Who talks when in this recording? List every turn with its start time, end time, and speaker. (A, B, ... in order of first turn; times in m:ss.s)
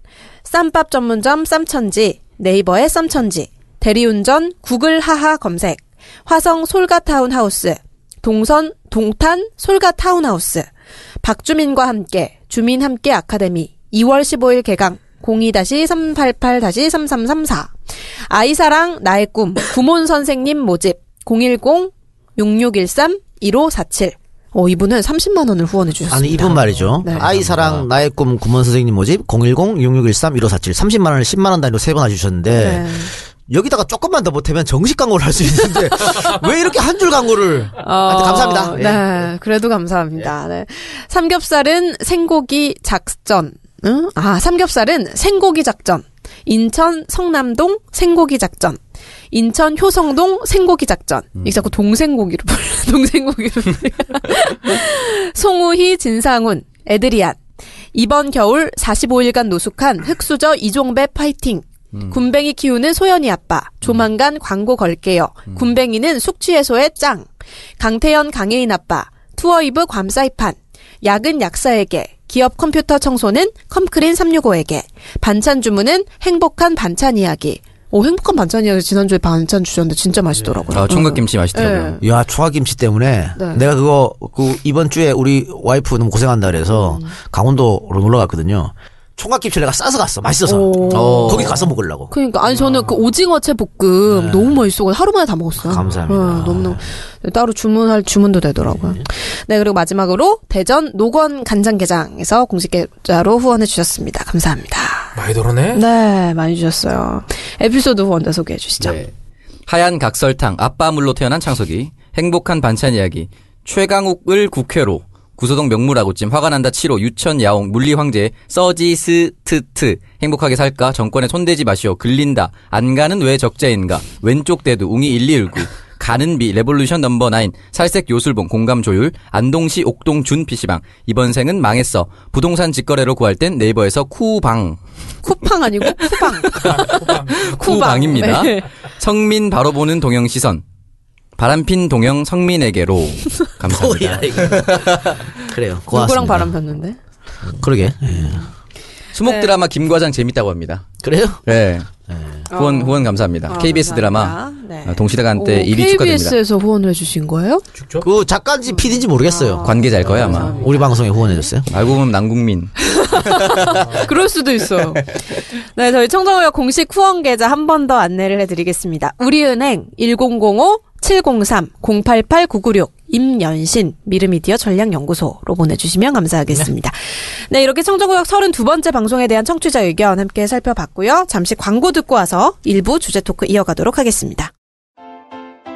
0:00.4-0:10.7 A
0:11.2-0:17.7 A
0:18.3-0:27.3 A
0:26.1-0:39.3 B
0:27.1-0:27.9 C
0:32.5-0:33.1 A
0:37.8-0:48.8 A
0:49.3-0:57.4 A
0:57.9-1:07.3 A
1:07.8-1:22.0 A
1:20.4-1:20.8 B
1:20.7-1:22.0 C
1:22.0-1:32.1 B
1:23.4-1:23.6 A
1:26.7-1:27.1 A
1:30.5-1:31.5 A
1:30.9-1:31.6 C
1:32.1-1:45.2 A
1:34.1-1:34.6 B
1:35.6-1:36.9 B
1:38.6-1:39.0 B
1:45.2-1:45.8 D
1:45.7-1:49.0 A
1:48.8-1:49.1 C
1:49.7-2:14.8 C
2:15.2-2:18.7 A
2:16.6-2:17.6 D
2:17.3-2:20.6 C
2:21.4-2:25.2 C
2:23.6-2:26.5 B
2:25.9-2:27.0 A
2:27.5-2:28.4 B
2:29.1-2:30.9 C
2:29.2-2:29.5 A
2:31.0-2:31.4 B
2:31.4-2:31.9 C
2:32.5-2:37.6 A
2:32.5-2:36.4 C
2:37.8-2:38.1 D
2:38.0-2:41.7 B
2:38.7-2:41.5 A
2:39.6-2:40.6 C
2:41.7-2:43.7 C
2:42.9-2:57.0 A
2:57.5-3:04.5 A